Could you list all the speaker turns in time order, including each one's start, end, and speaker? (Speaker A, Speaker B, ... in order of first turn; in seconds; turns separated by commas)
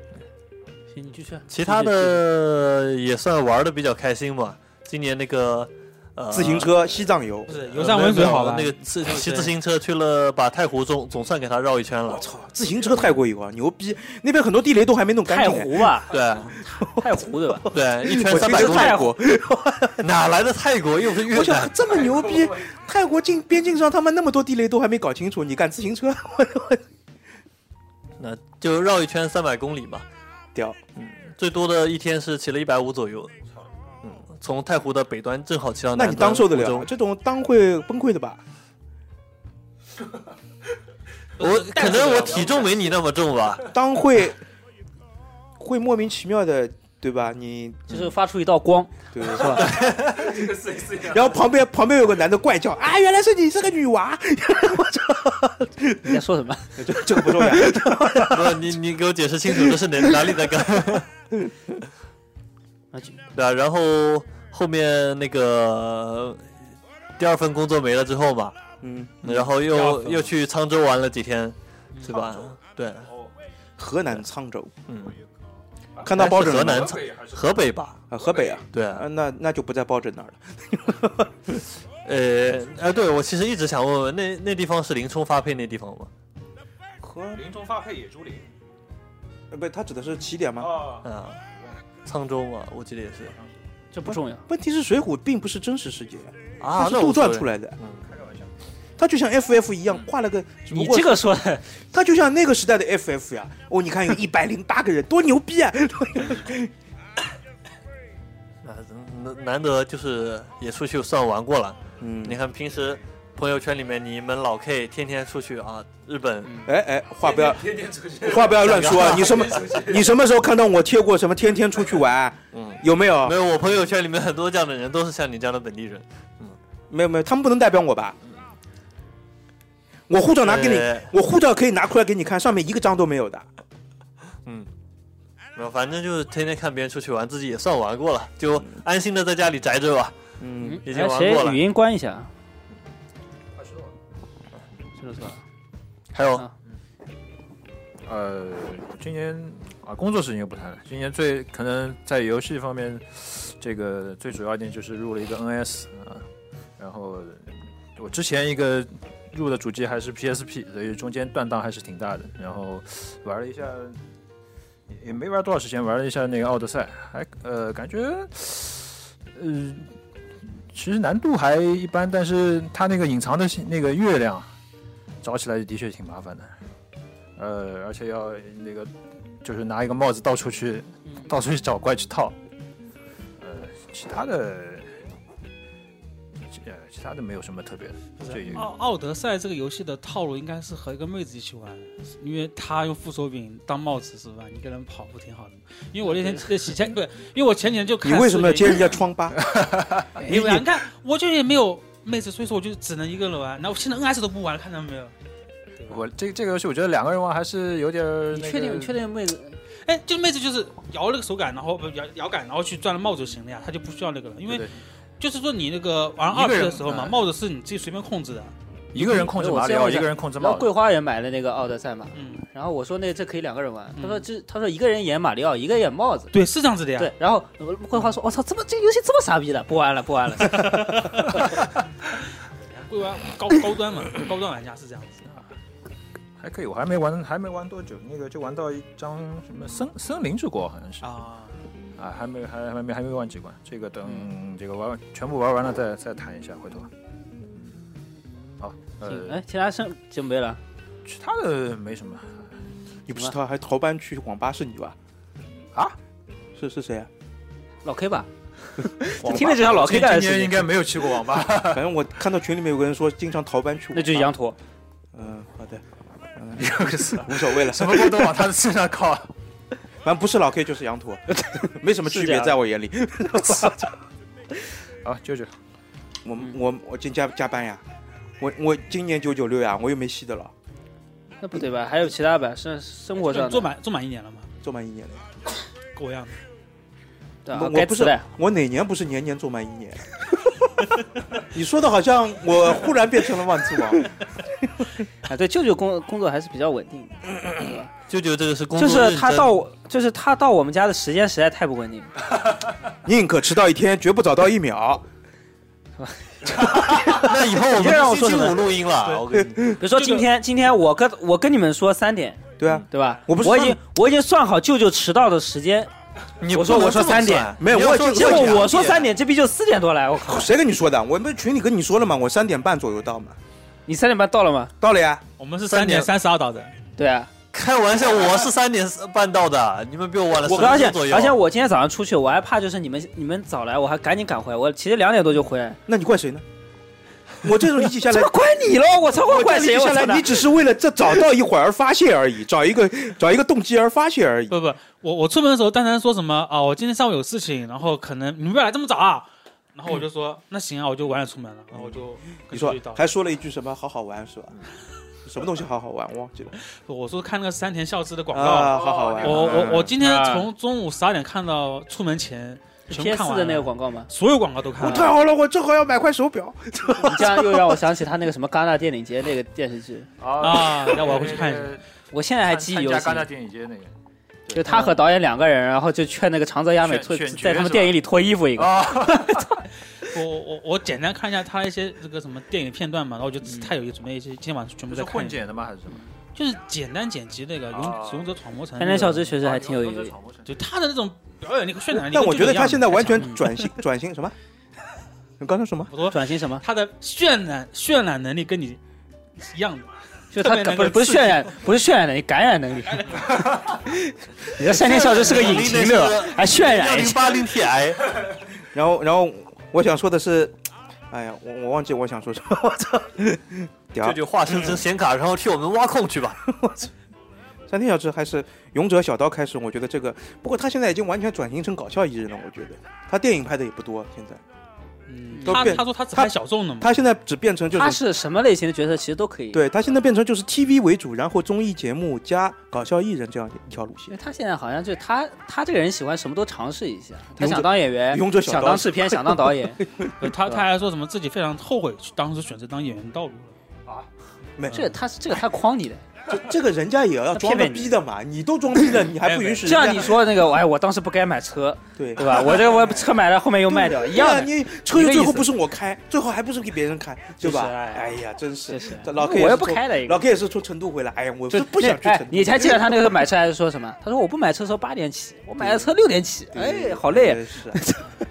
Speaker A: 0.9-2.2, Speaker B: 1.5-6.7, Speaker C: 6.3-7.7, Speaker D: 7.5-9.5, Speaker B: 7.7-12.2, Speaker C: 12.1-16.0, Speaker A: 15.2-16.2, Speaker B: 16.1-16.6, Speaker C: 16.7-20.1, Speaker A: 16.7-19.1, Speaker B: 17.7-19.1, Speaker B: 20.0-21.8, Speaker C: 21.2-26.8, Speaker B: 28.2-30.0, Speaker C: 30.5-30.8, Speaker B: 30.9-33.3, Speaker B: 34.0-36.9, Speaker C: 35.9-38.4, Speaker D: 41.4-42.7, Speaker B: 41.4-43.7, Speaker C: 43.7-44.4, Speaker C: 45.6-47.9, Speaker A: 47.9-49.7, Speaker C: 49.1-56.2, Speaker B: 49.6-50.1, Speaker A: 56.0-57.4, Speaker C: 56.8-58.8, Speaker B: 58.3-61.0, Speaker C: 59.5-60.4, Speaker A: 62.9-63.2, Speaker B: 63.3-66.4, Speaker B: 67.2-68.5, Speaker C: 68.8-69.4, Speaker B: 69.2-73.1, Speaker D: 69.7-70.2, Speaker E: 72.2-72.4, Speaker E: 73.0-73.3, Speaker C: 73.8-74.7, Speaker B: 74.9-75.2, Speaker C: 76.0-77.0, Speaker B: 76.1-78.0, Speaker E: 76.8-77.5, Speaker C: 78.1-81.6, Speaker E: 78.3-78.6, Speaker B: 78.7-79.0, Speaker B: 82.0-86.1, Speaker C: 87.0-87.5, Speaker E: 87.3-88.5, Speaker C: 89.5-90.8, Speaker E: 90.6-91.0, Speaker B: 91.0-91.4, Speaker B: 92.0-93.3, Speaker A: 93.9-94.4, Speaker C: 94.5-97.8, Speaker B: 96.6-98.0, Speaker E: 98.0-98.5, Speaker C: 99.0-101.2, Speaker A: 100.7-101.6, Speaker C: 101.9-106.7, Speaker B: 108.6-116.7, Speaker C: 112.0-112.4, Speaker C: 116.6-123.4, Speaker E: 117.4-118.5, Speaker B: 118.5-119.9, Speaker E: 119.2-120.1, Speaker B: 122.5-126.5, Speaker C: 126.9-128.2, Speaker C: 130.1-133.5, Speaker B: 130.4-131.1, Speaker B: 135.6-140.2, Speaker C: 140.4-140.8, Speaker A: 140.6-142.3, Speaker B: 140.8-141.6, Speaker A: 145.0-145.4, Speaker B: 146.1-146.4, Speaker E: 148.0-156.3, Speaker E: 156.8-164.0, Speaker E: 164.9-169.9, Speaker E: 170.7-174.5, Speaker E: 175.2-176.5, Speaker E: 177.4-178.9, Speaker E: 179.4-182.3, Speaker E: 183.4-184.9, Speaker E: 186.5-188.7, Speaker D: 188.2-199.0, Speaker C: 198.0-199.4, Speaker E: 199.4-200.4, Speaker D: 200.2-205.1, Speaker D: 205.8-206.0, Speaker E: 205.9-209.0, Speaker A: 208.3-209.6, Speaker D: 209.8-214.7, Speaker E: 214.5-214.7, Speaker D: 215.2-218.5, Speaker E: 216.3-217.2, Speaker E: 218.9-220.7, Speaker A: 219.0-226.3, Speaker D: 222.1-222.4, Speaker D: 224.0-224.2, Speaker D: 226.3-227.1, Speaker A: 227.0-231.1, Speaker D: 230.5-231.4, Speaker D: 232.7-235.4, Speaker E: 236.4-241.1, Speaker D: 241.0-241.6, Speaker E: 242.0-246.9, Speaker E: 248.6-249.4, Speaker A: 249.0-250.6, Speaker E: 251.0-252.5, Speaker C: 253.1-254.9, Speaker C: 256.6-257.1, Speaker A: 257.8-258.3, Speaker A: 258.8-260.7, Speaker C: 259.1-259.6, Speaker E: 259.2-261.9, Speaker C: 261.6-264.3, Speaker A: 263.9-264.6, Speaker C: 265.1-265.8, Speaker C: 266.3-268.3, Speaker E: 266.6-269.3, Speaker C: 270.0-273.9, Speaker A: 272.1-272.6, Speaker E: 275.0-275.5, Speaker C: 276.2-277.8, Speaker C: 278.4-280.5, Speaker A: 281.4-283.7, Speaker D: 283.2-284.5, Speaker C: 284.6-285.2, Speaker D: 285.9-286.3, Speaker A: 287.4-288.2, Speaker C: 287.5-290.5, Speaker C: 291.4-294.9, Speaker A: 295.2-297.9, Speaker B: 298.1-299.6, Speaker A: 298.7-302.1, Speaker C: 303.0-305.0, Speaker A: 306.0-308.7, Speaker B: 306.6-309.7, Speaker C: 309.3-309.8, Speaker A: 309.8-315.9, Speaker C: 312.6-313.8, Speaker B: 316.4-319.1, Speaker A: 316.5-320.5, Speaker C: 317.6-318.8, Speaker C: 320.2-323.4, Speaker A: 323.9-324.7, Speaker C: 324.8-325.2, Speaker D: 325.4-326.7, Speaker B: 325.7-326.1, Speaker A: 327.0-327.3, Speaker B: 327.5-331.4, Speaker A: 330.4-335.8, Speaker C: 330.6-330.9, Speaker C: 335.9-336.4, Speaker C: 337.4-338.4, Speaker A: 338.0-340.5, Speaker C: 339.1-344.6, Speaker D: 344.5-353.1, Speaker C: 351.7-354.6, Speaker C: 355.2-356.6, Speaker D: 356.7-365.1, Speaker C: 358.3-359.9, Speaker E: 360.0-360.4, Speaker A: 362.9-364.1, Speaker C: 364.8-367.8, Speaker A: 367.0-370.1, Speaker E: 370.2-371.8, Speaker D: 370.4-371.8, Speaker A: 372.1-373.3, Speaker E: 372.4-373.9, Speaker E: 374.5-375.0, Speaker A: 374.5-379.5, Speaker E: 376.8-378.0, Speaker E: 378.6-379.6, Speaker D: 380.0-385.4, Speaker E: 384.9-386.0, Speaker D: 386.3-389.3, Speaker E: 387.7-388.3, Speaker A: 388.8-390.1, Speaker E: 389.3-390.6, Speaker D: 390.4-393.5, Speaker C: 392.0-394.3, Speaker C: 395.4-395.9, Speaker D: 395.9-398.8, Speaker A: 396.1-396.6, Speaker D: 399.4-401.5, Speaker A: 400.3-403.2, Speaker D: 402.9-403.7, Speaker A: 404.5-407.4, Speaker B: 404.7-408.2, Speaker C: 408.7-410.5, Speaker C: 411.1-414.8, Speaker B: 414.0-416.4, Speaker C: 416.5-416.9, Speaker C: 417.7-424.4, Speaker D: 425.1-427.0, Speaker A: 425.3-425.8, Speaker C: 425.4-428.0, Speaker A: 427.7-429.6, Speaker C: 429.5-434.1, Speaker A: 434.1-439.8, Speaker C: 437.4-440.3, Speaker D: 440.2-443.5, Speaker C: 444.6-444.9, Speaker A: 444.7-446.0, Speaker C: 446.3-450.2, Speaker A: 447.3-448.0, Speaker D: 449.2-449.9, Speaker A: 449.6-455.5, Speaker C: 452.0-453.1, Speaker C: 453.7-463.0, Speaker A: 457.4-458.1, Speaker A: 458.7-460.2, Speaker A: 461.5-468.1, Speaker C: 465.6-465.9, Speaker C: 466.5-467.8